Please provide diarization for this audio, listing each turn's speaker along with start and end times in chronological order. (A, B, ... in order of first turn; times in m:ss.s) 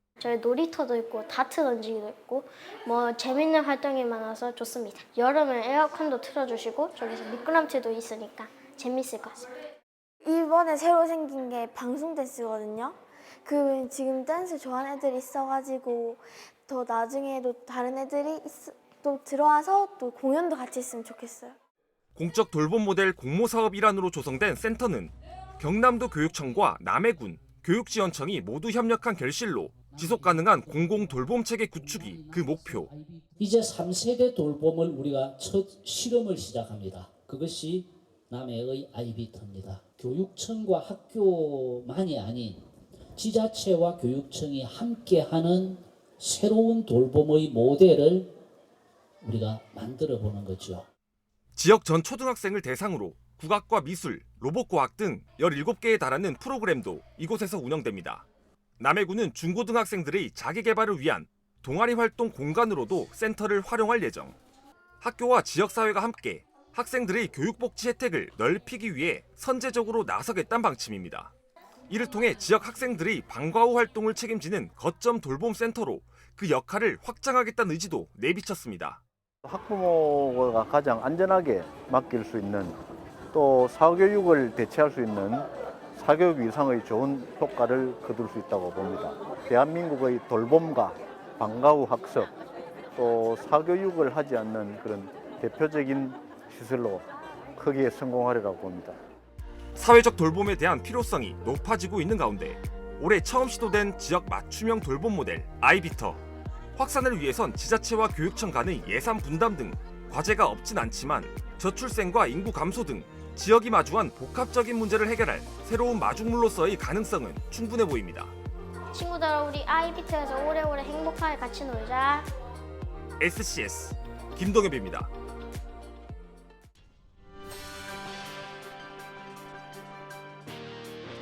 0:00.2-0:09.6 A
0:10.2-0:21.6 B
0:22.1-0:32.9 C
0:29.8-0:31.2 D
0:31.8-0:48.3 D
0:49.2-0:50.8 D
0:51.6-0:58.2 C
0:58.8-1:04.4 C
1:05.0-1:11.3 C
1:11.9-1:19.0 C
1:19.4-1:22.8 E
1:23.3-1:32.3 E
1:32.9-1:39.0 E
1:39.8-1:46.2 C
1:46.8-1:58.3 C
1:58.9-2:02.3 A
2:03.2-2:05.1 C